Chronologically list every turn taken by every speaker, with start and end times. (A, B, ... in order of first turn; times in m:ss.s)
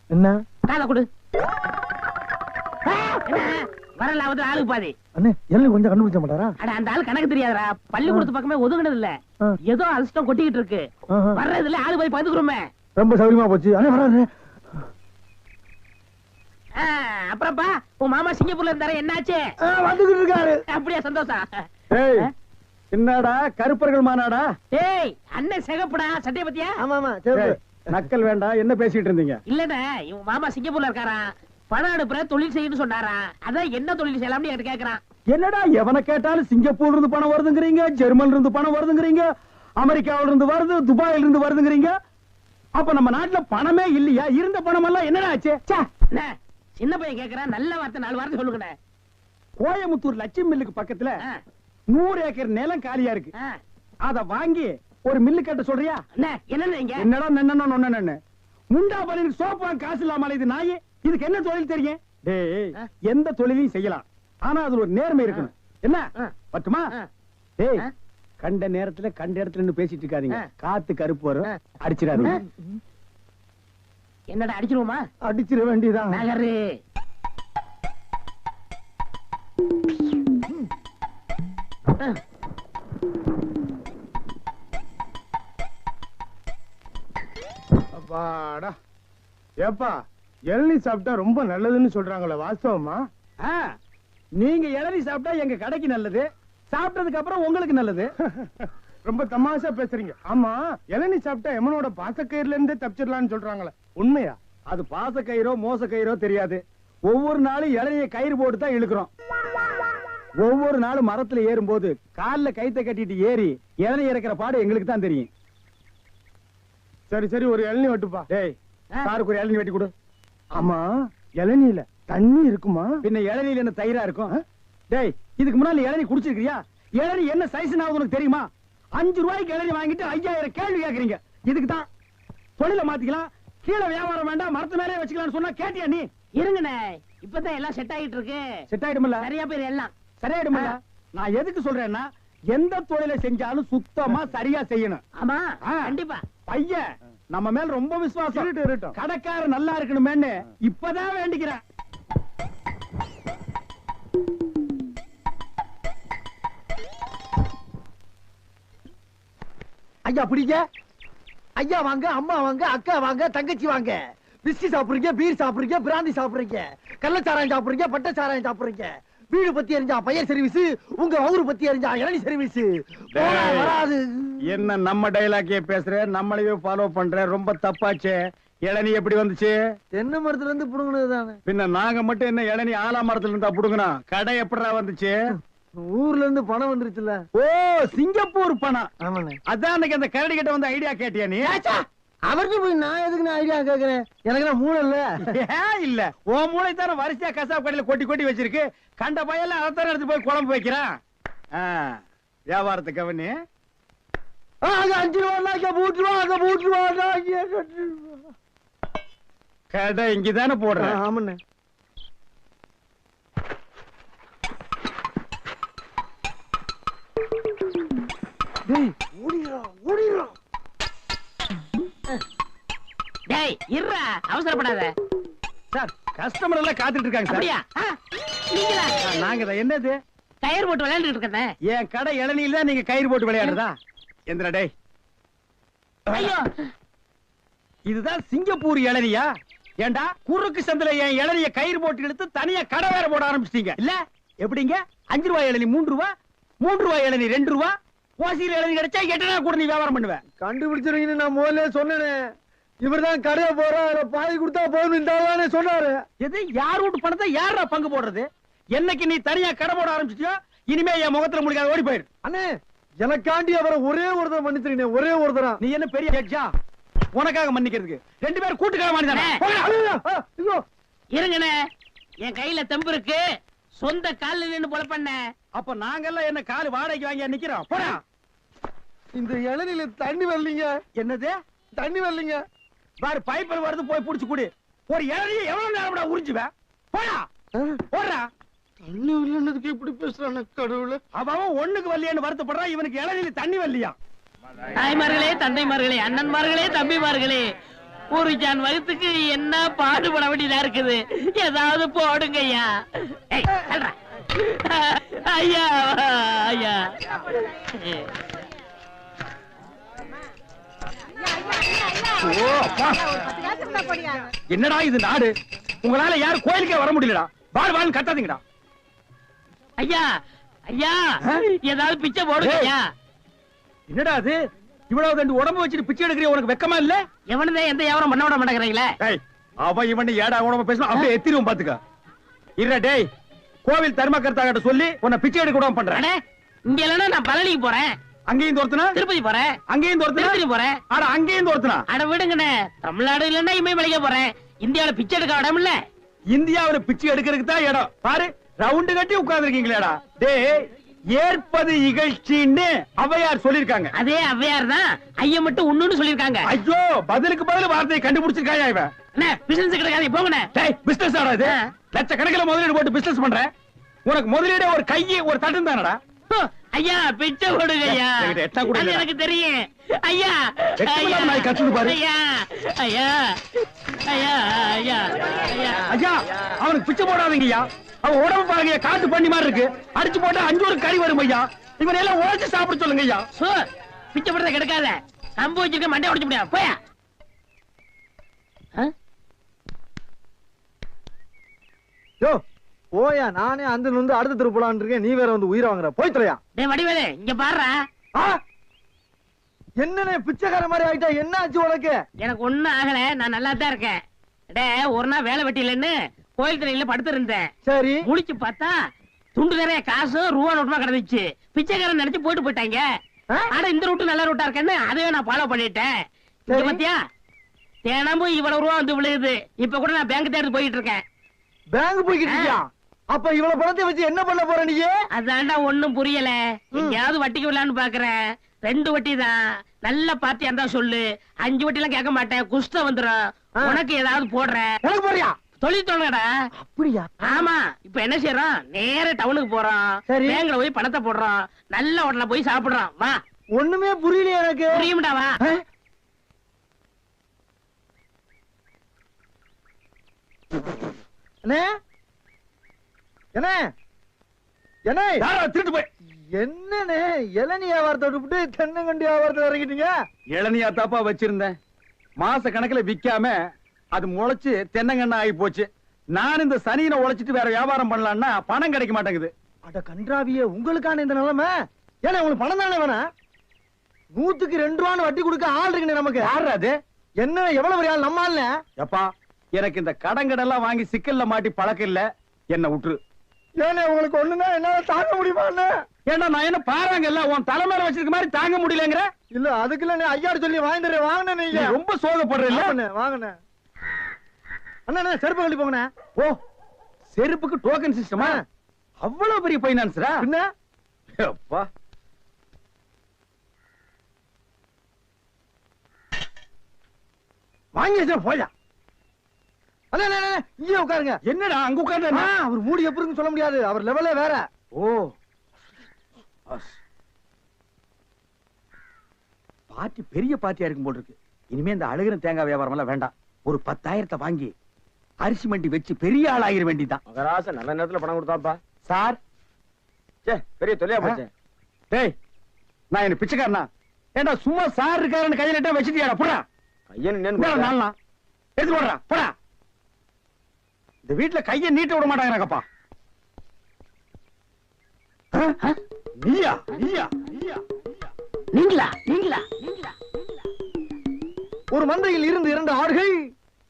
0:00.1-0:00.4 A
0:00.7-0:01.0 B
0:03.0-0:04.9 B
0:05.2-0:06.5 A
0:06.6-0:09.1 B
0:09.7-0:12.6 B
0:11.1-0:11.4 A
0:13.0-0:14.3 A
0:16.8-0:19.4 B
0:19.6-0:20.6 A
0:20.7-0:21.6 B
0:21.9-0:22.3 C
0:22.9-0:24.5 C
0:24.7-0:26.8 B
0:26.8-0:28.0 A
0:27.3-0:29.4 C
0:29.5-0:35.0 B
0:35.3-0:39.3 C
0:39.8-0:41.9 C
0:42.8-0:45.8 C
0:46.1-0:48.7 B
0:49.6-0:51.2 C
0:51.9-0:53.3 C
0:54.0-0:56.0 C
0:56.2-0:57.1 B
0:57.0-0:58.2 C
0:58.7-1:06.8 C
1:08.4-1:12.3 C
1:14.3-1:15.0 B
1:15.3-1:16.2 D
1:15.4-1:16.0 A
1:16.1-1:16.5 B
1:27.9-1:28.8 E
1:29.6-1:33.0 E
1:34.4-1:38.1 C
1:38.6-1:44.4 E
1:44.7-1:49.1 C
1:50.4-1:55.3 C
1:57.1-1:58.2 E
1:58.3-1:59.9 C
2:00.6-2:02.9 E
2:03.0-2:04.4 C
2:04.9-2:08.4 C
2:09.0-2:11.9 C
2:12.6-2:16.0 C
2:16.4-2:18.4 B
2:18.7-2:19.2 C
2:19.2-2:19.9 B
2:20.2-2:25.0 C
2:25.2-2:26.2 B
2:26.5-2:26.8 C
2:27.3-2:31.6 C
2:28.4-2:28.9 E
2:40.0-2:40.6 A
2:41.6-2:54.4 A
2:53.2-2:53.8 C
2:54.4-2:59.5 C
2:59.9-3:01.4 A
3:01.4-3:05.1 C
3:05.8-3:07.2 A
3:07.4-3:08.9 C
3:09.0-3:09.4 A
3:09.5-3:11.5 C
3:11.4-3:15.0 A
3:15.2-3:20.9 C
3:21.6-3:22.0 C
3:22.5-3:23.3 C
3:24.6-3:28.2 A
3:29.7-3:31.0 C
3:30.8-3:31.4 A
3:38.7-3:40.3 A
3:43.3-3:44.9 B
3:45.7-3:47.4 C
3:47.3-3:47.9 B
3:48.5-3:48.9 B
3:49.0-3:50.0 C
3:50.4-3:51.5 B
3:51.7-3:53.7 C
3:54.3-3:54.7 C
3:56.1-3:56.5 B
3:57.9-3:59.3 C
3:59.8-4:06.1 C
4:06.6-4:10.2 C
4:10.4-4:12.1 A
4:12.8-4:16.0 A
4:16.2-4:22.1 C
4:23.0-4:25.6 A
4:25.6-4:26.5 C
4:27.2-4:29.6 C
4:29.1-4:29.4 B
4:29.5-4:30.6 A
4:31.2-4:31.5 B
4:32.2-4:33.2 B
4:33.8-4:35.2 B
4:35.5-4:38.0 C
4:39.1-4:40.7 A
4:41.0-4:41.3 C
4:41.8-4:42.4 A
4:43.0-4:47.2 C
4:47.6-4:47.8 A
4:47.9-4:48.2 C
4:48.8-4:51.0 A
4:51.1-4:53.9 C
4:54.8-4:57.5 B
4:58.1-5:06.9 B
5:07.7-5:08.0 B
5:12.0-5:13.2 C
5:14.5-5:15.3 C
5:15.8-5:18.4 C
5:19.8-5:20.1 B
5:20.7-5:21.0 B
5:21.6-5:22.8 B
5:22.4-5:22.7 C
5:23.9-5:24.4 C
5:24.9-5:27.0 C
5:27.3-5:28.9 B
5:29.0-5:31.8 C
5:32.6-5:33.0 C
5:33.6-5:36.0 C
5:35.9-5:37.9 B
5:38.3-5:38.9 C
5:39.0-5:39.5 B
5:39.7-5:41.8 C
5:40.2-5:40.8 B
5:41.9-5:45.7 B
5:46.3-5:53.9 C
5:54.0-5:56.4 B
5:56.5-5:58.9 C
5:59.2-6:00.5 B
6:00.5-6:03.5 C
6:04.0-6:06.0 C
6:06.3-6:15.9 B
6:07.8-6:09.0 C
6:10.8-6:12.0 C
6:15.9-6:23.2 C
6:23.3-6:26.8 B
6:33.0-6:36.4 A
6:36.6-6:37.7 B
6:39.8-6:42.0 A
6:42.2-6:44.0 B
6:44.5-6:47.4 B
6:47.6-6:48.0 A
6:48.1-6:48.7 B
6:49.4-6:52.8 B
6:53.5-6:55.9 B
6:56.5-6:56.8 A
6:56.5-6:57.0 B
6:57.8-7:01.0 B
7:01.7-7:05.0 A
7:02.3-7:02.6 B
7:05.1-7:08.1 B
7:08.6-7:14.7 B
7:14.8-7:15.3 A
7:15.6-7:16.3 B
7:16.6-7:17.4 A
7:17.2-7:23.2 B
7:20.1-7:20.4 A
7:23.5-7:24.9 A
7:24.7-7:25.3 B
7:34.9-7:35.2 A
7:35.2-7:35.9 C
7:36.4-7:39.9 A
7:40.3-7:41.5 C
7:42.2-7:43.4 C
7:43.9-7:49.3 C
7:49.7-7:51.5 A
7:52.0-7:53.0 A
7:54.1-7:56.3 A
7:56.2-7:56.7 C
7:57.2-7:58.5 A
7:58.8-8:03.0 C
8:03.6-8:05.7 A
8:06.1-8:09.1 C
8:09.3-8:11.8 A
8:11.5-8:12.7 C
8:12.5-8:13.3 A
8:14.9-8:15.8 A
8:17.1-8:18.4 C
8:19.0-8:20.2 C
8:20.2-8:20.4 A
8:21.2-8:21.6 C
8:27.8-8:28.5 A
8:29.9-8:31.2 A
8:31.2-8:32.3 C
8:32.1-8:34.4 A
8:34.8-8:35.1 C
8:36.5-8:36.8 C
8:39.7-8:44.5 C
8:45.2-8:47.0 C
8:47.1-8:48.6 D
8:48.8-8:49.2 C
8:50.2-8:51.3 D
8:52.9-8:53.6 C
8:54.2-8:56.4 C
8:56.9-8:57.7 D
8:57.4-8:57.9 C
8:58.6-8:59.3 C
9:01.1-9:02.6 C
9:06.2-9:07.6 C
9:08.5-9:10.0 B
9:11.7-9:13.2 A